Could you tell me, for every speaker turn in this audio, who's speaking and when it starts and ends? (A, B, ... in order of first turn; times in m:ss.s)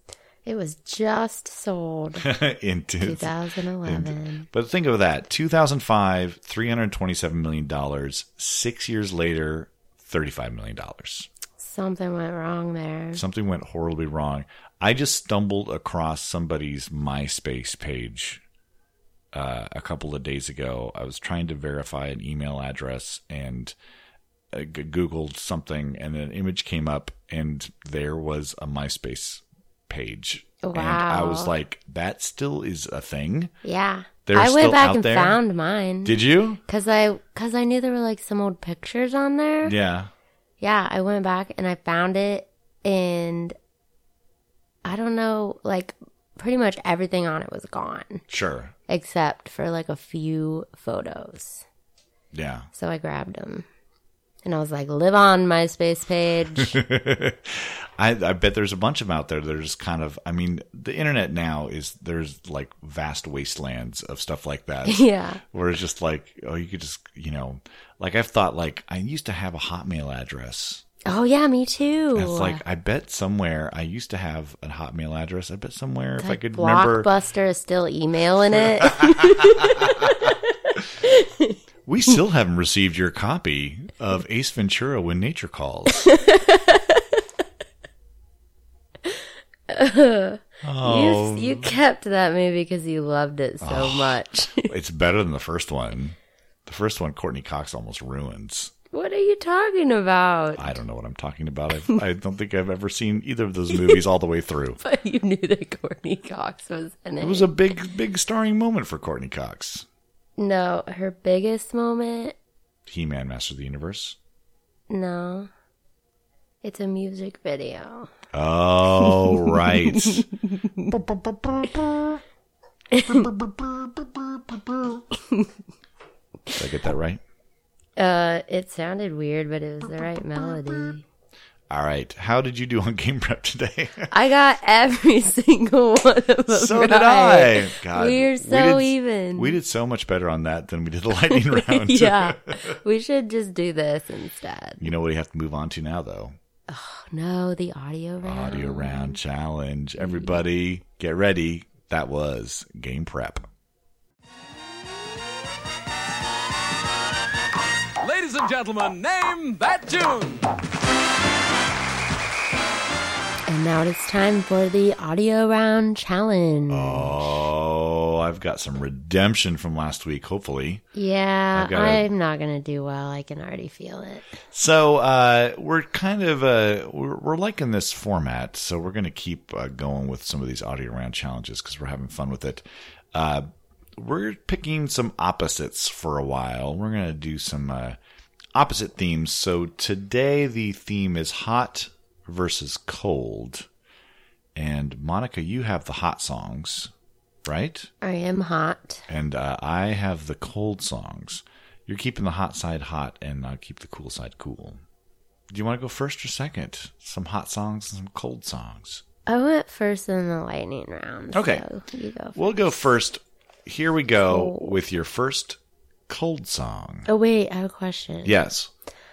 0:00.4-0:02.3 A
0:02.2-0:03.3 B
0:03.0-0:04.5 A
0:03.8-0:11.3 B
0:11.6-0:13.2 A
0:13.1-0:18.4 B
0:19.3-0:23.7 B
0:24.5-0:33.5 B
0:30.6-0:31.5 A
0:33.6-0:39.7 A
0:34.2-0:35.4 B
0:36.0-0:36.6 B
0:39.6-0:40.1 B
0:40.6-0:43.6 A
0:44.8-0:48.2 A
0:48.3-0:48.7 B
0:48.9-0:51.6 A
0:52.3-0:52.7 B
0:52.7-0:53.6 A
0:54.4-0:56.8 A
0:56.6-1:10.8 B
1:04.8-1:05.4 A
1:11.1-1:12.6 A
1:12.1-1:17.1 B
1:16.2-1:21.6 A
1:18.9-1:20.1 B
1:21.8-1:26.1 B
1:26.0-1:27.2 A
1:29.7-1:34.7 A
1:30.6-1:31.7 B
1:33.6-1:38.7 B
1:38.9-1:40.8 A
1:40.6-1:44.8 B
1:44.8-1:47.5 A
1:47.2-1:49.8 B
1:50.4-1:52.3 A
1:52.9-1:54.2 B
1:54.9-1:55.5 A
1:56.6-1:58.1 A
1:58.3-2:00.3 B
1:59.2-2:00.9 A
2:00.9-2:02.0 B
2:02.9-2:03.3 A
2:03.3-2:04.6 B
2:05.2-2:05.5 A
2:06.5-2:07.2 B
2:08.0-2:11.0 A
2:11.7-2:14.1 B
2:14.1-2:19.6 A
2:16.5-2:22.8 B
2:21.3-2:24.9 A
2:24.8-2:26.4 B
2:26.7-2:29.2 A
2:28.2-2:33.5 B
2:30.0-2:30.3 A
2:38.0-2:40.4 C
2:43.5-2:47.2 A
2:46.7-2:50.8 B
2:50.9-2:54.4 A
2:51.5-2:52.0 B
2:54.5-3:08.0 B
3:08.5-3:13.7 B
3:14.5-3:16.9 B
3:17.4-3:17.9 B
3:18.0-3:19.0 A
3:19.1-3:24.8 B
3:25.5-3:29.0 B
3:29.2-3:32.4 A
3:31.3-3:31.6 B
3:32.4-3:37.1 B
3:34.3-3:34.7 A
3:37.0-3:38.3 A
3:38.2-3:38.7 B